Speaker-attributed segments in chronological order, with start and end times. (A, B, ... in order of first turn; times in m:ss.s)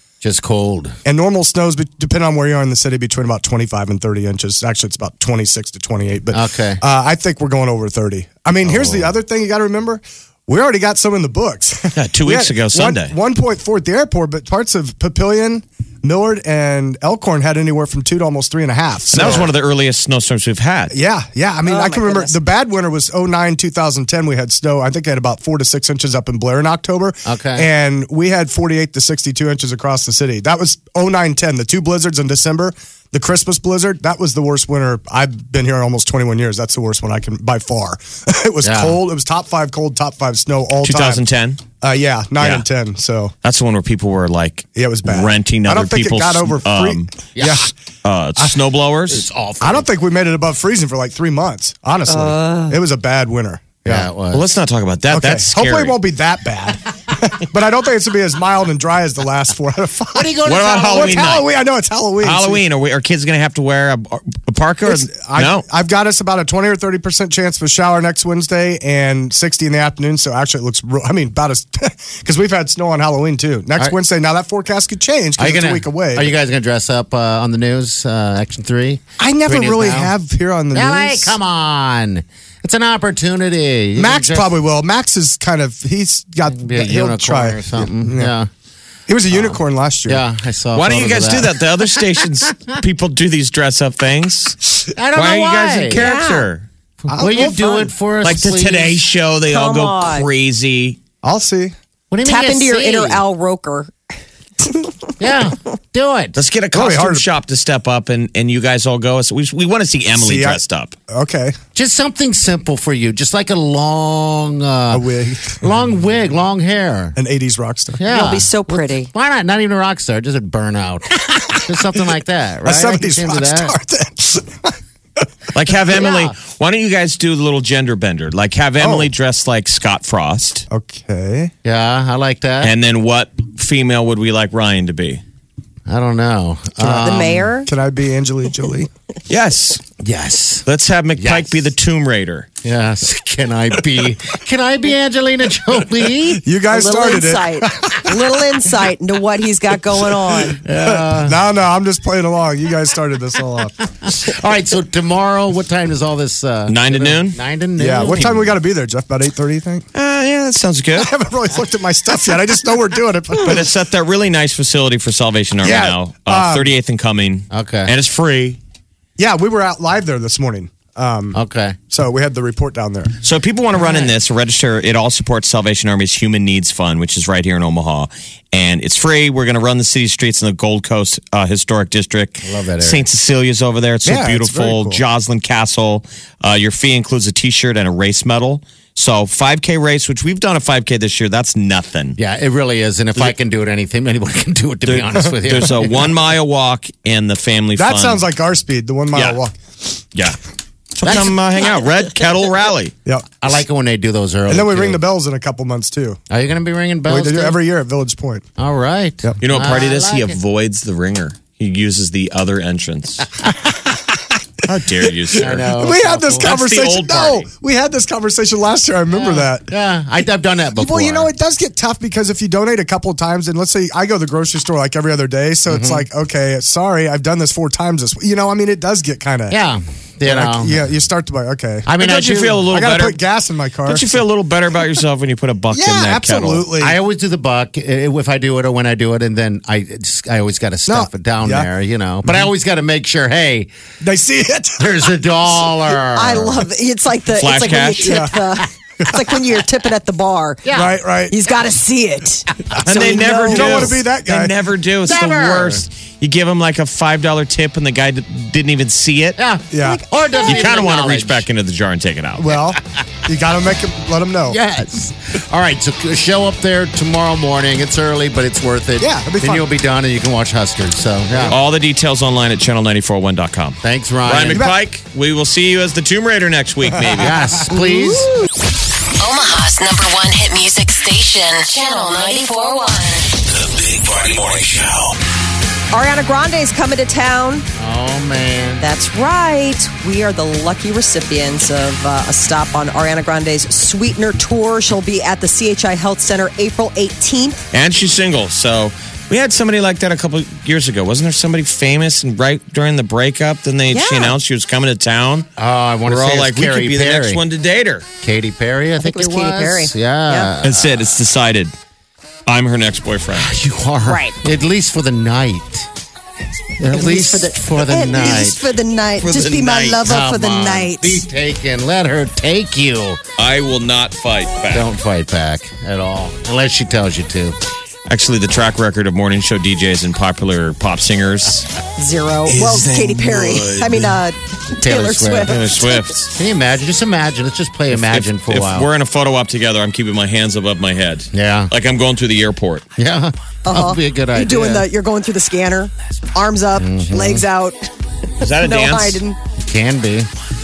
0:00.2-0:01.0 A
0:01.0-0:19.5 B
0:06.3-0:06.8 A
0:08.6-0:09.1 A
0:11.9-0:13.1 C
0:19.1-0:20.9 C
0:19.2-0:19.5 A
0:20.9-0:41.2 B
0:21.6-0:22.4 D
0:27.2-0:27.7 A
0:38.6-0:39.0 A
0:40.8-0:41.6 C
0:41.8-0:43.3 B
0:42.4-0:42.6 C
0:43.4-0:47.1 C
0:44.8-0:47.7 B
0:47.3-0:47.7 A
0:48.0-0:49.2 C
0:49.1-0:49.9 A
0:49.6-0:54.1 B
0:52.1-0:52.8 D
0:53.8-0:54.5 A
0:54.3-0:56.0 C
0:55.1-1:00.4 B
1:00.1-1:01.4 A
1:00.4-1:01.5 C
1:00.9-1:02.6 B
1:02.2-1:05.6 C
1:04.8-1:16.3 B
1:15.4-1:20.1 A
1:19.2-1:21.4 B
1:20.7-1:24.5 A
1:24.0-1:28.3 B
1:26.5-1:28.5 A
1:29.1-1:30.2 B
1:29.3-1:32.8 A
1:30.7-1:34.6 C
1:34.9-1:36.2 A
1:35.1-1:36.6 C
1:36.0-1:36.5 D
1:37.1-1:39.0 A
1:37.1-1:37.9 B
1:38.2-1:41.0 C
1:39.5-1:40.3 D
1:41.2-1:41.7 B
1:42.1-1:43.2 A
1:42.2-1:43.9 D
1:44.6-1:44.9 D
1:45.2-1:46.4 A
1:46.3-1:51.0 C
1:46.7-1:47.2 B
1:50.1-1:51.6 B
1:51.7-1:55.0 A
1:54.9-1:55.6 B
1:55.6-1:57.2 A
1:57.2-1:58.0 B
1:57.9-2:03.7 A
1:58.1-1:59.1 D
2:01.3-2:02.0 B
2:02.6-2:04.8 B
2:05.5-2:10.6 C
2:05.9-2:06.3 A
2:08.8-2:09.1 B
2:10.7-2:11.5 B
2:11.6-2:12.7 A
2:12.6-2:15.2 C
2:15.9-2:17.5 A
2:16.8-2:17.1 B
2:17.0-2:17.7 D
2:17.6-2:18.9 B
2:19.3-2:19.8 C
2:20.0-2:20.6 A
2:20.6-2:22.5 C
2:21.2-2:21.6 A
2:22.6-2:26.4 A
2:26.3-2:28.5 B
2:26.7-2:30.6 D
2:30.6-2:31.4 A
2:30.6-2:33.9 B
2:34.0-2:38.5 A
2:36.7-2:37.4 C
2:37.8-2:39.8 B
2:38.0-2:38.5 C
2:39.9-2:41.1 C
2:41.0-2:43.7 B
2:43.4-2:48.6 C
2:45.6-2:46.7 B
2:47.5-2:47.9 A
2:49.2-2:51.4 B
2:51.3-2:51.8 A
2:51.9-2:53.1 B
2:53.2-3:12.2 C
3:02.4-3:03.0 A
3:04.0-3:05.0 B
3:12.2-3:16.1 A
3:14.8-3:18.2 C
3:17.8-3:19.5 B
3:19.1-3:19.4 C
3:21.0-3:22.9 C
3:21.0-3:21.4 A
3:23.4-3:25.0 A
3:24.5-3:26.2 B
3:26.3-3:27.6 A
3:27.1-3:28.4 B
3:28.6-3:30.4 A
3:29.4-3:33.2 C
3:34.6-3:35.7 C
3:35.3-3:39.7 B
3:35.4-3:36.5 A
3:36.4-3:37.5 C
3:39.1-3:41.3 A
3:40.8-3:49.6 B
3:45.7-3:46.1 A
3:49.5-3:50.8 A
3:50.2-3:52.0 B
3:51.8-3:52.6 A
3:52.0-3:53.2 C
3:52.6-3:54.2 B
3:53.8-3:56.6 C
3:55.7-3:56.9 B
3:56.8-4:03.7 A
4:00.9-4:01.7 B
4:02.2-4:02.5 B
4:04.0-4:05.1 B
4:04.8-4:06.7 A
4:06.1-4:10.6 D
4:07.4-4:08.2 C
4:08.0-4:08.4 B
4:10.6-4:11.0 A
4:10.7-4:11.4 B
4:11.3-4:13.8 D
4:12.7-4:14.5 B
4:12.8-4:19.4 C
4:15.0-4:15.8 A
4:19.4-4:21.4 A
4:19.7-4:20.0 B
4:19.8-4:20.5 D
4:20.4-4:22.6 C
4:22.4-4:24.6 B
4:24.5-4:31.6 A
4:29.0-4:29.6 B
4:31.5-4:37.4 C
4:33.8-4:34.7 A
4:34.5-4:34.8 B
4:37.1-4:38.3 A
4:37.8-4:38.2 D
4:39.2-4:43.3 E
4:43.5-4:45.1 F
4:45.9-4:47.6 D
4:47.8-4:48.8 A
4:48.8-4:57.6 D
4:57.7-5:05.5 C
5:03.9-5:04.4 D
5:05.6-5:07.4 A
5:06.0-5:08.0 C
5:08.2-5:11.1 A
5:09.0-5:10.5 D
5:10.6-5:11.7 C
5:12.5-5:13.5 C
5:13.3-5:15.9 A
5:14.0-5:14.4 D
5:16.8-5:18.8 A
5:16.9-5:21.2 D
5:19.2-5:20.0 C
5:20.0-5:23.2 A
5:23.4-5:24.9 C
5:24.7-5:27.6 A
5:28.1-5:31.7 C
5:32.0-5:36.1 D
5:32.5-5:34.2 F
5:34.8-5:35.8 A
5:35.5-5:36.3 C
5:36.3-5:38.9 A
5:37.9-5:42.8 C
5:41.3-5:41.7 A
5:43.0-5:44.9 A
5:43.6-5:47.8 D
5:46.8-5:47.4 A
5:48.4-5:49.2 C
5:48.4-5:49.4 D
5:49.6-5:50.3 A